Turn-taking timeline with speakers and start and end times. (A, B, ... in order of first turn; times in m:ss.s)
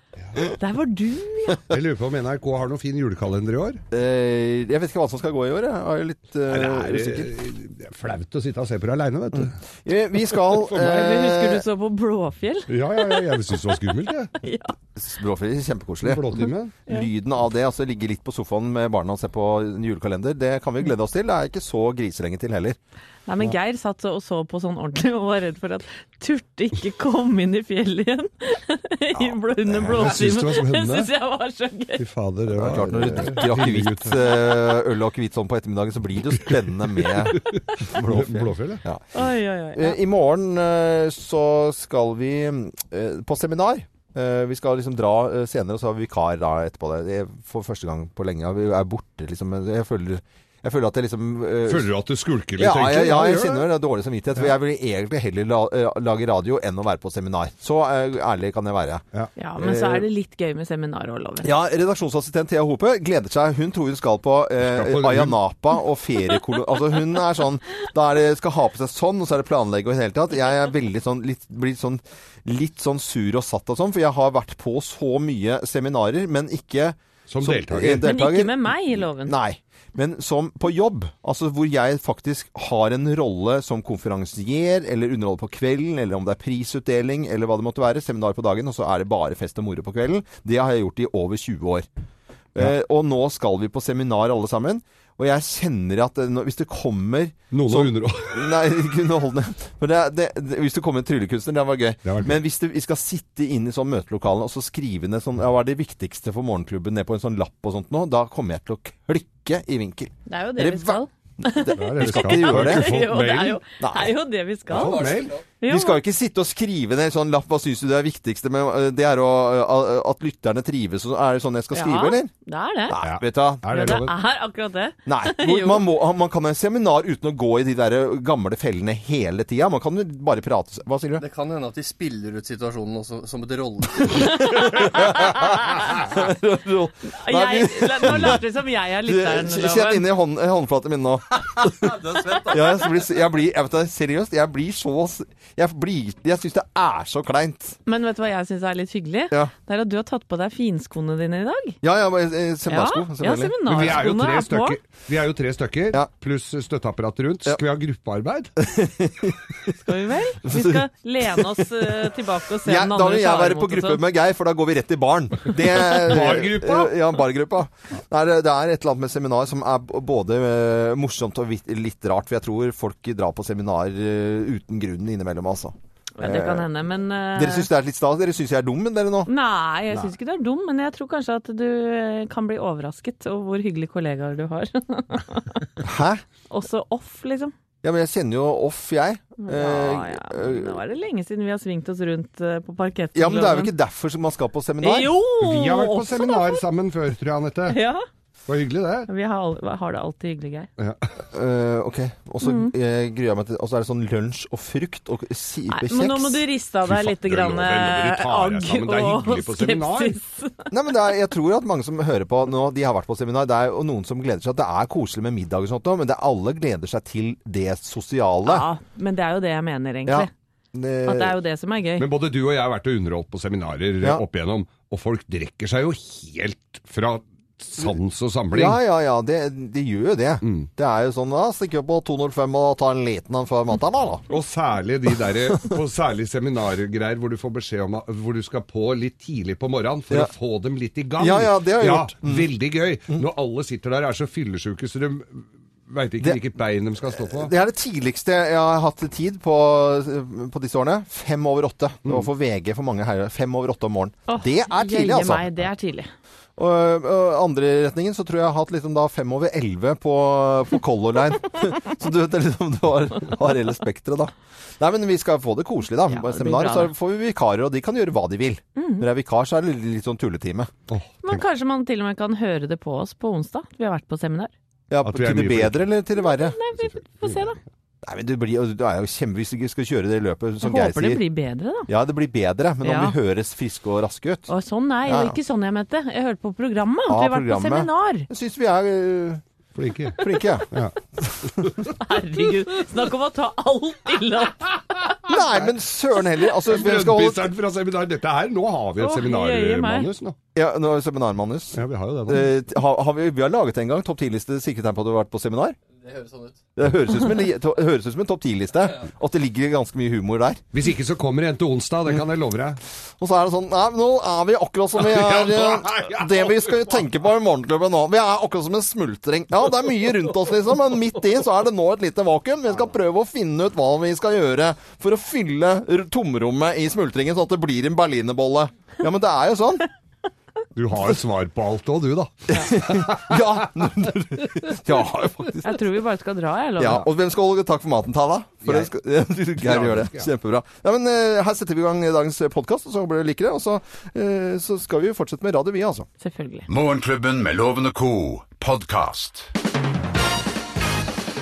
0:00.5-0:01.6 A
0:01.7-0:03.8 B
0:03.9-0:07.3 C
0:06.5-0:09.6 B
0:09.4-0:11.6 C
0:10.7-0:13.4 A
0:12.7-0:14.3 B
0:14.4-0:14.7 A
0:15.0-0:22.8 C
0:16.0-0:16.8 B
0:23.3-0:32.0 A
0:29.7-0:30.1 C
0:29.9-0:31.1 B
0:32.0-0:34.4 B
0:32.5-0:51.9 C
0:37.4-0:38.8 B
0:39.1-0:40.0 A
0:51.7-0:53.7 B
0:52.6-0:59.0 C
0:59.4-1:01.5 A
0:59.6-1:00.1 C
1:01.4-1:31.9 C
1:04.6-1:05.4 B
1:17.3-1:18.1 B
1:18.0-1:19.4 A
1:32.6-1:53.0 C
1:37.5-1:38.5 B
1:42.0-1:42.4 B
1:50.3-1:55.0 A
1:51.7-1:53.6 B
1:53.8-1:54.2 C
1:54.7-1:55.3 B
1:54.7-1:55.5 D
1:55.6-1:56.0 A
1:55.7-2:02.3 C
2:01.7-2:03.1 A
2:02.9-2:03.7 C
2:03.0-2:04.1 B
2:03.7-2:05.9 A
2:05.1-2:11.2 C
2:11.2-2:14.4 D
2:14.1-2:18.4 C
2:14.8-2:15.5 A
2:17.2-2:20.1 A
2:19.0-2:27.8 C
2:27.9-2:31.8 A
2:31.8-2:33.6 C
2:32.7-2:34.8 A
2:33.6-2:38.5 B
2:38.6-2:39.5 C
2:39.8-2:44.0 A
2:40.4-2:42.1 C
2:42.6-2:56.7 C
2:45.9-2:46.9 B
2:56.2-2:57.7 A
2:57.3-2:59.3 C
2:59.3-3:05.7 A
3:05.8-3:06.2 C
3:06.5-3:07.5 A
3:07.8-3:10.8 C
3:09.4-3:13.7 A
3:13.2-3:15.1 C
3:14.8-3:16.6 A
3:15.4-3:17.8 B
3:17.7-3:18.0 A
3:18.5-3:19.1 B
3:19.1-3:20.7 A
3:21.3-3:26.4 C
3:22.4-3:22.7 A
3:25.7-3:30.7 A
3:26.8-3:30.2 B
3:30.7-3:38.7 C
3:38.4-3:40.3 A
3:40.1-3:41.4 C
3:41.1-3:42.1 A
3:42.0-3:48.8 B
3:48.5-3:54.3 C
3:50.4-3:50.7 B
3:54.3-4:07.5 B
4:01.2-4:02.5 C
4:07.1-4:15.5 C
4:14.3-4:16.1 A
4:16.6-4:30.7 C
4:26.1-4:26.9 A
4:28.8-4:29.1 A
4:30.9-4:31.4 B
4:31.2-4:34.5 A
4:34.9-4:36.6 C
4:35.0-4:35.9 B
4:36.2-4:37.6 A
4:36.8-4:37.5 B
4:38.0-4:41.2 C
4:40.6-4:41.9 A
4:41.9-4:44.5 C
4:42.8-4:43.2 A
4:44.5-4:48.3 A
4:45.0-4:45.4 C
4:47.1-4:49.4 C
4:49.8-4:50.9 B
4:50.2-4:50.7 C
4:51.2-4:51.7 C
4:51.6-4:51.9 B
4:52.0-4:55.2 A
4:55.3-4:57.5 C
4:56.7-5:00.4 B
4:59.0-5:00.1 A
5:00.6-5:05.8 C
5:01.8-5:02.5 B
5:06.0-5:06.6 D
5:06.8-5:10.6 C
5:10.7-5:12.8 B
5:13.2-5:29.9 C
5:15.0-5:16.6 B
5:30.8-5:33.5 B
5:32.5-5:35.8 C
5:35.6-5:37.1 A
5:36.8-5:46.1 C
5:39.6-5:40.3 B
5:46.2-5:46.7 A
5:46.7-5:49.5 E